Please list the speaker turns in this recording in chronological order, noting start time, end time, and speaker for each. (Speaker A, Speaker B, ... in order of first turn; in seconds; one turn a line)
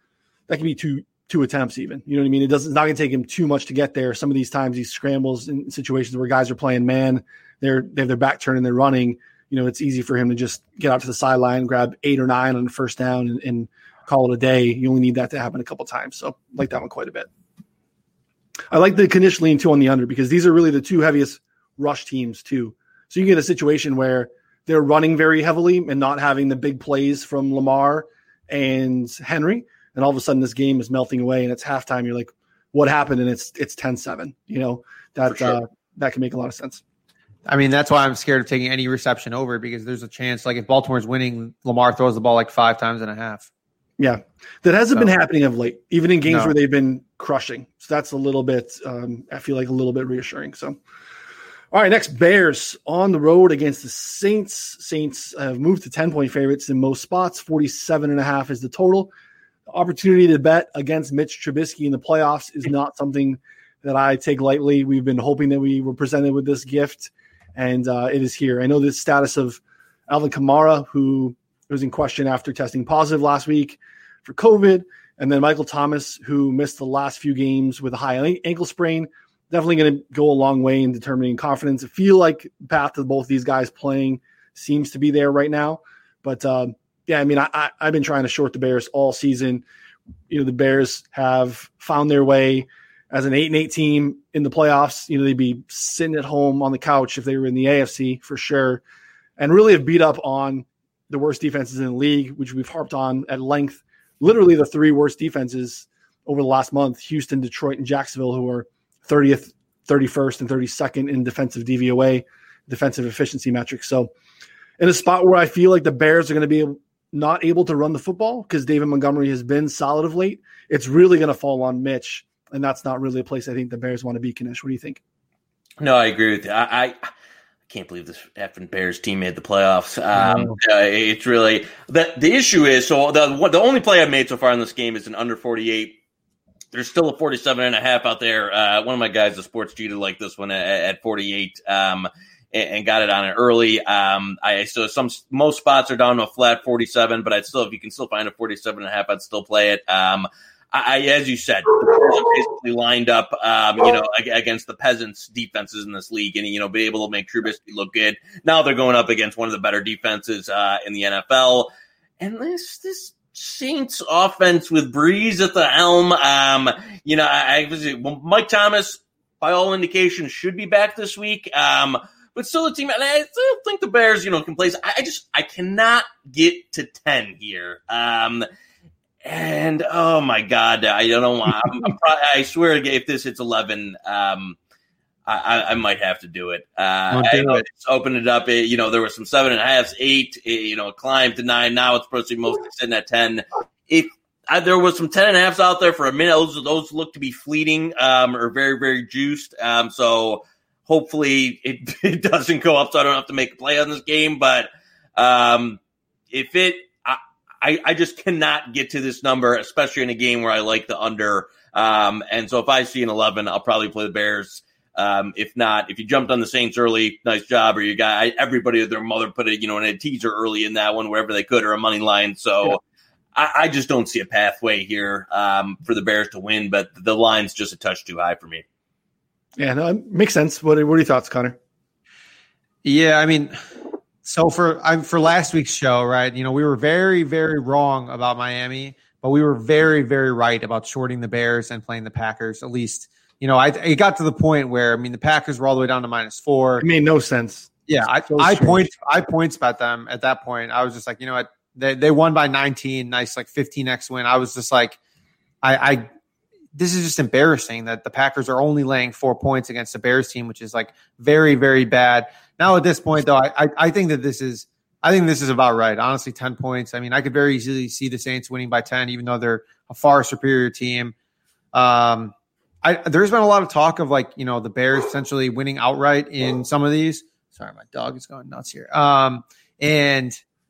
Speaker A: 0.5-17.3
Speaker A: 18.7-36.8
Speaker B: 37.5-43.5
Speaker A: 44.0-50.8
Speaker B: 46.2-46.5
Speaker A: 51.7-59.1
Speaker A: 59.7-89.6
Speaker A: 90.3-98.8
Speaker A: 99.4-114.1
Speaker A: 114.8-125.0
Speaker C: 125.8-127.1
Speaker C: 127.7-136.0
Speaker A: 130.2-130.6
Speaker C: 136.7-161.7
Speaker C: 162.2-178.5
Speaker C: 179.2-184.6
Speaker C: 185.2-205.8
Speaker B: 187.1-187.6
Speaker C: 206.3-222.8
Speaker C: 223.3-228.6
Speaker A: 229.6-231.6
Speaker B: 232.8-233.6
Speaker B: 234.2-246.9
Speaker A: 246.8-248.8
Speaker B: 247.9-255.0
Speaker B: 255.6-256.1
Speaker B: 256.7-271.1
Speaker B: 271.7-280.4